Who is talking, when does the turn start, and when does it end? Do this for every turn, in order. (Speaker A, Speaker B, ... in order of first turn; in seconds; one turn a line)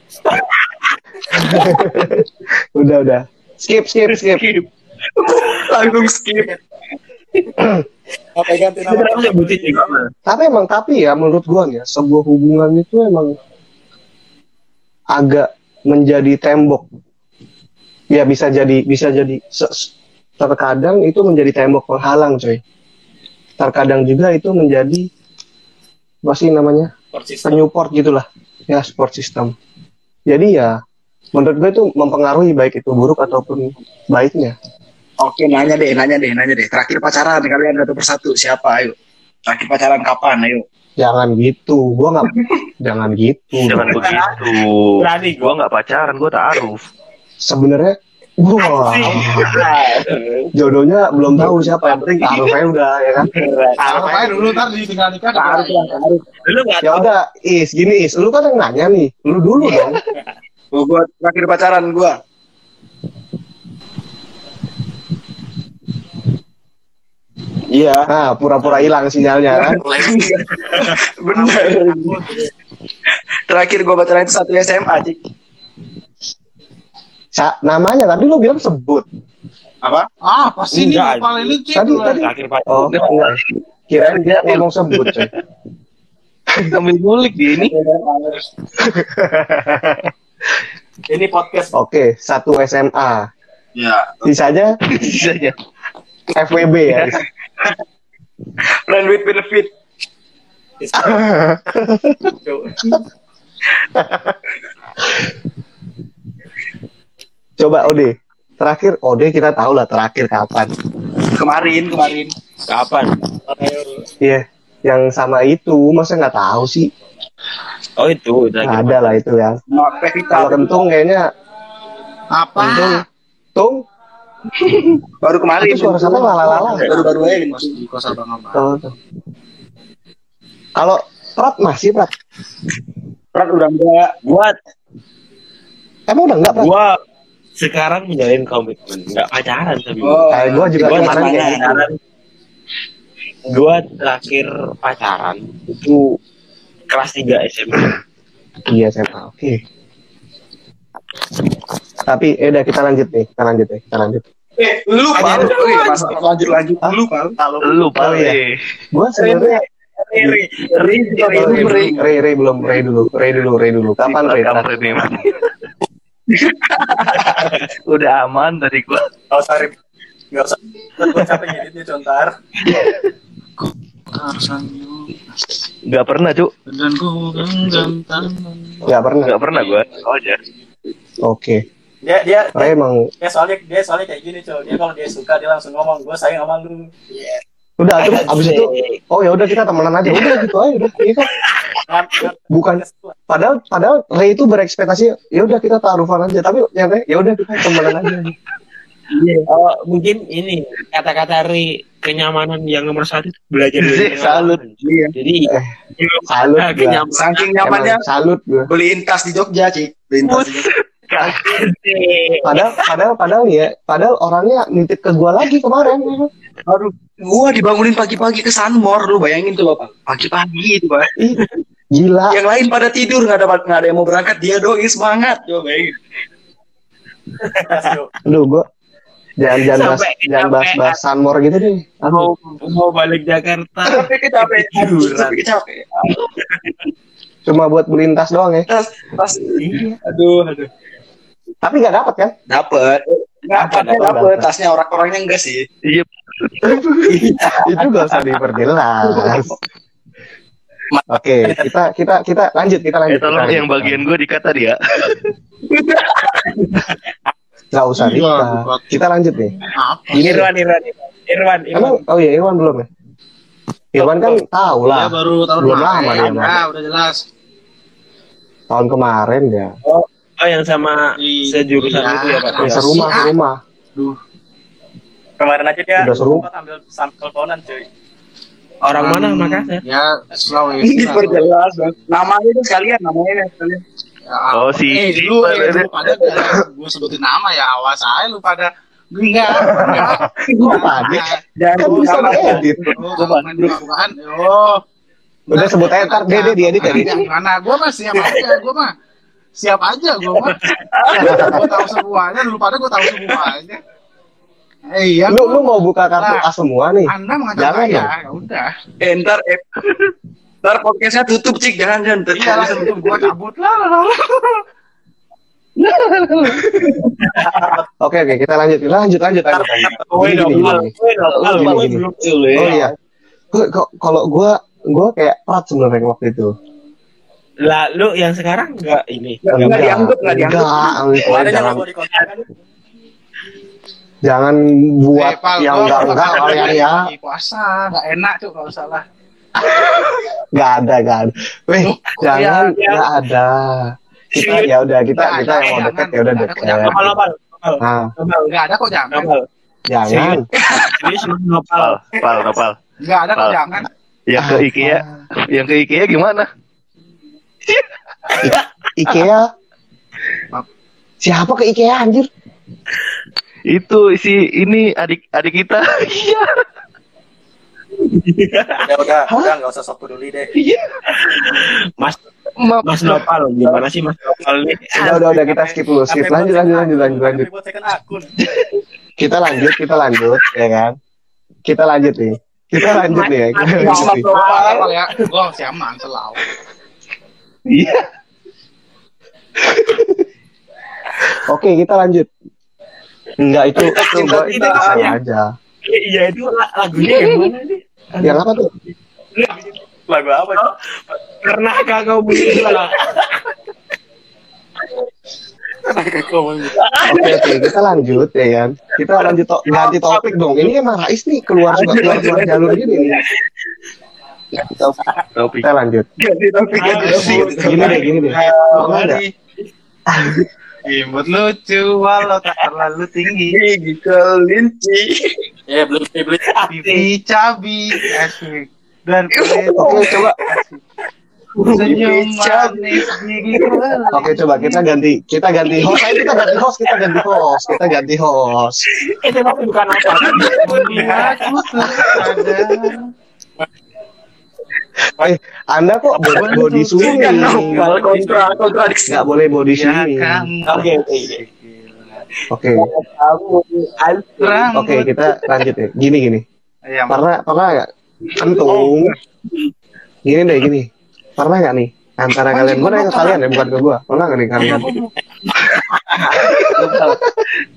Speaker A: 1.4-2.2
Speaker A: 2.8-4.4
Speaker B: 5.2-6.5
Speaker C: 5.7-6.6
Speaker C: 8.3-10.0
Speaker D: 8.8-10.1
Speaker A: 10.3-13.3
Speaker A: 15.1-16.8
Speaker A: 18.1-22.6
Speaker A: 23.6-25.0
Speaker A: 26.2-26.9
Speaker C: 27.1-27.6
Speaker A: 27.4-29.5
Speaker A: 30.3-30.7
Speaker A: 31.3-34.5
Speaker B: 35.2-38.9
Speaker B: 39.5-40.6
Speaker A: 41.0-44.2
Speaker E: 43.6-46.8
Speaker D: 43.8-44.4
Speaker D: 45.0-45.6
Speaker A: 47.5-49.7
Speaker D: 48.7-50.5
Speaker A: 50.5-53.3
Speaker D: 53.3-53.7
Speaker C: 53.8-54.6
Speaker F: 53.8-56.0
Speaker B: 55.3-56.2
Speaker D: 56.4-57.1
Speaker A: 56.8-60.0
Speaker B: 60.7-62.2
Speaker D: 67.7-68.0
Speaker A: 68.1-69.8
Speaker B: 69.5-72.2
Speaker F: 71.3-72.5
Speaker B: 73.5-75.2
Speaker A: 77.3-79.0
Speaker B: 79.8-80.1
Speaker F: 80.2-82.3
Speaker D: 80.7-83.4
Speaker A: 81.7-83.3
Speaker A: 83.9-85.3
Speaker A: 86.5-86.7
Speaker F: 86.7-87.7
Speaker B: 87.6-88.4
Speaker A: 88.8-90.0
Speaker C: 91.1-91.7
Speaker A: 91.7-93.3
Speaker B: 93.8-94.2
Speaker A: 94.2-94.8
Speaker E: 95.0-95.5
Speaker A: 96.3-97.2
Speaker B: 98.8-99.7
Speaker C: 100.8-101.2
Speaker A: 101.0-102.3
Speaker C: 102.4-102.8
Speaker A: 107.6-110.7
Speaker B: 111.3-112.3
Speaker D: 112.7-113.1
Speaker C: 113.5-114.0
Speaker A: 114.2-116.9
Speaker D: 118.0-119.2
Speaker A: 118.6-119.6
Speaker B: 119.7-120.7
Speaker A: 120.3-121.2
Speaker F: 122.3-123.0
Speaker A: 122.6-123.0
Speaker B: 125.2-127.7
Speaker A: 125.6-126.9
Speaker F: 126.1-128.7
Speaker A: 128.5-128.9
Speaker A: 130.8-132.1
Speaker B: 133.3-134.2
Speaker D: 134.2-134.5
Speaker A: 136.1-136.7
Speaker D: 136.5-136.9
Speaker D: 137.6-141.9
Speaker B: 140.0-141.9
Speaker A: 140.3-141.6
Speaker D: 143.5-146.1
Speaker D: 146.9-148.0
Speaker A: 148.7-149.6
Speaker A: 152.1-154.2
Speaker B: 154.6-157.3
Speaker D: 155.2-156.1
Speaker C: 157.4-157.7
Speaker E: 157.6-158.5
Speaker A: 157.9-158.4
Speaker A: 158.9-159.6
Speaker D: 159.2-161.9
Speaker B: 160.7-162.0
Speaker E: 160.8-161.6
Speaker A: 161.3-165.0
Speaker E: 164.0-165.3
Speaker B: 166.4-167.2
Speaker E: 167.9-169.1
Speaker C: 169.3-169.7
Speaker C: 170.3-172.3
Speaker E: 172.7-173.1
Speaker F: 174.1-175.6
Speaker E: 175.9-176.5
Speaker F: 176.7-178.8
Speaker A: 178.8-179.3
Speaker E: 179.2-180.4
Speaker A: 181.2-181.6
Speaker C: 182.0-186.9
Speaker A: 182.6-183.1
Speaker A: 187.8-191.3
Speaker D: 188.0-189.0
Speaker D: 190.1-190.4
Speaker C: 191.9-193.1
Speaker A: 192.5-198.3
Speaker B: 199.2-199.5
Speaker D: 199.5-207.7
Speaker E: 203.8-204.6
Speaker B: 204.8-205.1
Speaker A: 205.5-205.7
Speaker A: 206.3-207.0
Speaker B: 207.1-208.0
Speaker A: 207.6-208.7
Speaker B: 208.7-210.7
Speaker E: 210.2-210.7
Speaker D: 211.1-212.8
Speaker A: 212.4-216.3
Speaker B: 216.7-221.1
Speaker A: 221.9-222.4
Speaker B: 222.3-226.0
Speaker C: 227.6-228.1
Speaker A: 228.2-228.6
Speaker A: 229.4-232.3
Speaker D: 229.6-231.0
Speaker D: 232.1-235.4
Speaker B: 233.8-236.1
Speaker A: 237.4-238.7
Speaker B: 238.7-240.7
Speaker D: 239.6-239.9
Speaker A: 241.6-242.3
Speaker B: 242.5-245.6
Speaker A: 243.6-244.4
Speaker E: 245.9-246.8
Speaker A: 246.6-249.6
Speaker C: 250.9-251.7
Speaker A: 251.1-254.0
Speaker E: 253.1-255.2
Speaker D: 256.0-256.9
Speaker A: 257.7-259.5
Speaker F: 258.0-258.8
Speaker F: 259.6-260.5
Speaker A: 260.1-260.4
Speaker D: 260.1-262.0
Speaker A: 261.7-262.9
Speaker A: 263.9-266.6
Speaker F: 264.0-267.2
Speaker A: 268.7-269.7
Speaker D: 269.8-273.2
Speaker F: 271.2-273.4
Speaker A: 272.6-273.6
Speaker C: 275.4-277.9
Speaker A: 276.0-276.4
Speaker D: 278.8-279.8
Speaker F: 278.9-281.5
Speaker B: 280.8-283.8
Speaker F: 284.3-294.8
Speaker E: 284.5-285.7
Speaker A: 289.6-291.3
Speaker B: 290.4-293.8
Speaker A: 291.8-292.9
Speaker A: 295.5-297.1
Speaker F: 295.5-298.9
Speaker F: 299.6-300.6
Speaker B: 301.0-301.4
Speaker A: 301.2-301.6
Speaker F: 301.2-303.8
Speaker D: 301.2-301.6
Speaker F: 304.9-306.4
Speaker A: 305.3-308.1
Speaker F: 307.1-308.7
Speaker B: 309.0-309.6
Speaker B: 310.6-313.3
Speaker F: 312.3-314.6
Speaker F: 315.8-316.9
Speaker A: 318.0-320.9
Speaker C: 319.5-320.0
Speaker D: 319.7-322.9
Speaker A: 321.4-322.0
Speaker A: 322.6-322.9
Speaker A: 323.5-326.5
Speaker D: 327.6-329.8
Speaker B: 329.4-330.9
Speaker A: 329.5-331.8
Speaker C: 331.2-332.4
Speaker A: 334.2-337.0
Speaker F: 335.1-339.0
Speaker A: 339.6-347.0
Speaker F: 341.8-342.8
Speaker D: 342.7-343.1
Speaker D: 344.3-344.7
Speaker F: 345.1-347.1
Speaker D: 346.7-348.5
Speaker A: 347.8-348.1
Speaker F: 348.5-349.3
Speaker D: 349.1-349.4
Speaker A: 349.9-350.4
Speaker D: 350.1-352.0
Speaker E: 351.7-352.8
Speaker F: 353.0-353.9
Speaker E: 354.3-356.4
Speaker A: 354.4-355.2
Speaker A: 358.4-359.4
Speaker A: 361.2-362.3
Speaker E: 363.7-366.5
Speaker D: 368.0-368.8
Speaker C: 368.8-370.5
Speaker E: 370.6-371.0
Speaker D: 371.4-372.2
Speaker F: 372.6-373.1
Speaker D: 372.8-375.3
Speaker A: 374.9-377.4
Speaker C: 375.4-378.3
Speaker A: 379.2-380.9
Speaker A: 381.6-384.2
Speaker D: 382.9-384.8
Speaker B: 383.7-384.9
Speaker F: 384.1-386.4
Speaker E: 387.7-388.0
Speaker A: 389.6-390.2
Speaker A: 391.4-392.3
Speaker A: 393.4-395.4
Speaker D: 393.8-395.2
Speaker B: 393.8-395.1
Speaker D: 395.8-398.5
Speaker A: 398.2-398.7
Speaker D: 399.4-399.7
Speaker C: 400.1-400.7
Speaker D: 400.6-403.4
Speaker C: 405.9-406.7
Speaker D: 406.8-407.6
Speaker A: 407.1-413.2
Speaker D: 409.7-410.3
Speaker B: 411.7-413.2
Speaker D: 411.9-412.4
Speaker B: 414.6-415.0
Speaker E: 415.4-415.7
Speaker A: 415.6-416.1
Speaker B: 416.2-419.2
Speaker C: 416.8-418.0
Speaker F: 416.8-419.1
Speaker D: 416.8-418.9
Speaker A: 417.6-419.2
Speaker A: 420.1-420.4
Speaker F: 420.8-423.6
Speaker B: 423.5-425.4
Speaker C: 425.7-426.4
Speaker D: 426.4-427.1
Speaker F: 426.7-430.8
Speaker B: 429.3-430.3
Speaker A: 429.8-430.3
Speaker B: 431.6-433.2
Speaker F: 431.7-434.9
Speaker A: 434.1-438.8
Speaker D: 436.1-436.4
Speaker D: 439.0-442.2
Speaker F: 440.1-443.1
Speaker A: 441.8-442.1
Speaker A: 445.2-447.9
Speaker F: 446.3-448.5
Speaker B: 447.0-449.2
Speaker C: 447.6-448.5
Speaker A: 449.1-450.5
Speaker F: 449.7-452.2
Speaker D: 450.6-451.4
Speaker A: 452.5-452.9
Speaker D: 452.7-454.7
Speaker F: 454.4-455.1
Speaker A: 454.7-456.4
Speaker F: 456.9-457.2
Speaker A: 457.1-459.1
Speaker A: 460.3-460.9
Speaker A: 461.4-464.9
Speaker F: 462.5-463.6
Speaker D: 464.6-464.9
Speaker D: 466.1-466.8
Speaker A: 466.5-467.2